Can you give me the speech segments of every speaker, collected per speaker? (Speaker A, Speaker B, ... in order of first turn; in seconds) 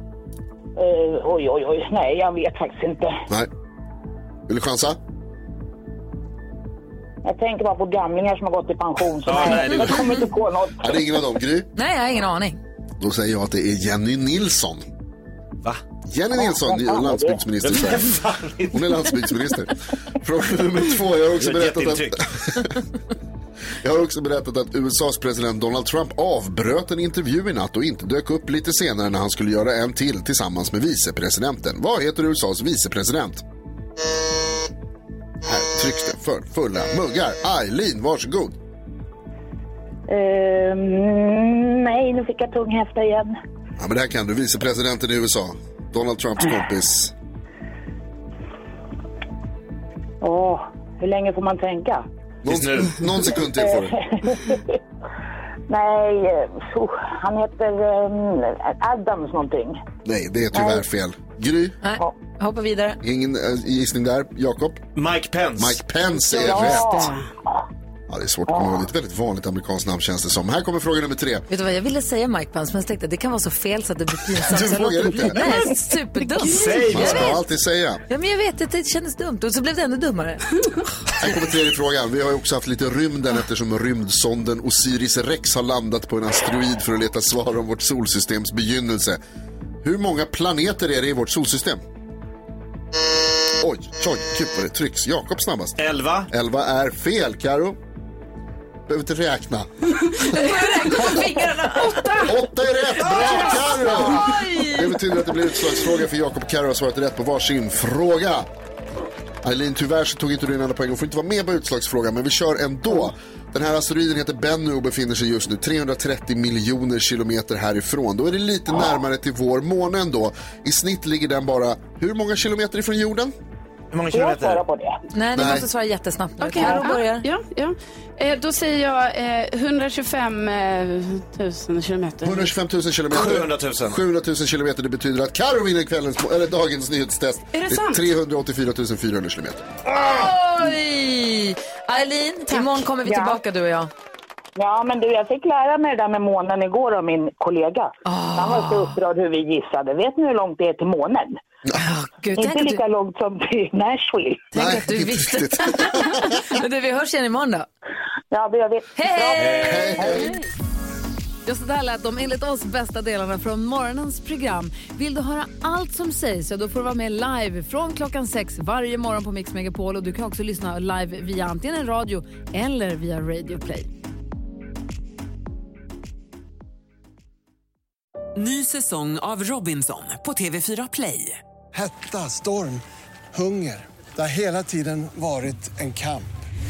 Speaker A: 0.8-3.2, 7.2-11.0, 16.3-17.4, 40.1-43.4, 50.2-52.0, 53.5-54.6, 55.7-59.8, 60.5-60.8, 66.2-67.2, 68.5-68.8, 124.1-125.0, 143.0-143.4, 144.6-151.4, 152.4-154.5, 158.3-160.1
Speaker B: 4.5-5.0, 10.8-11.7, 13.0-14.8, 16.1-18.1, 18.7-22.8, 23.8-33.4, 35.4-38.6, 43.8-47.1, 52.4-54.0, 60.0-61.8, 63.0-64.8, 65.6-66.9, 68.1-71.5, 74.4-75.5, 76.9-78.0, 81.2-89.2, 89.8-91.8, 93.6-97.8, 98.9-99.7, 102.2-108.5, 109.4-123.3, 125.3-125.7, 132.2-139.7, 154.5-156.4, 159.4-160.3
Speaker C: 9.2-10.2, 17.6-18.9, 21.3-22.2, 52.5-53.0, 65.0-65.8, 76.4-77.3, 95.8-96.3, 103.1-103.6, 123.9-124.6, 133.1-134.0
Speaker D: 11.7-12.6, 61.8-63.0, 71.5-77.3, 78.1-80.4, 100.2-102.3, 103.0-105.0, 125.1-127.3, 139.9-143.9, 148.0-149.0, 151.7-152.8, 154.5-157.7, 158.9-160.3, 161.4-173.9
Speaker E: 66.4-67.3, 76.2-77.1, 103.2-103.7, 126.4-132.4, 137.5-138.1
Speaker F: 178.3-181.4
Speaker G: 181.7-186.4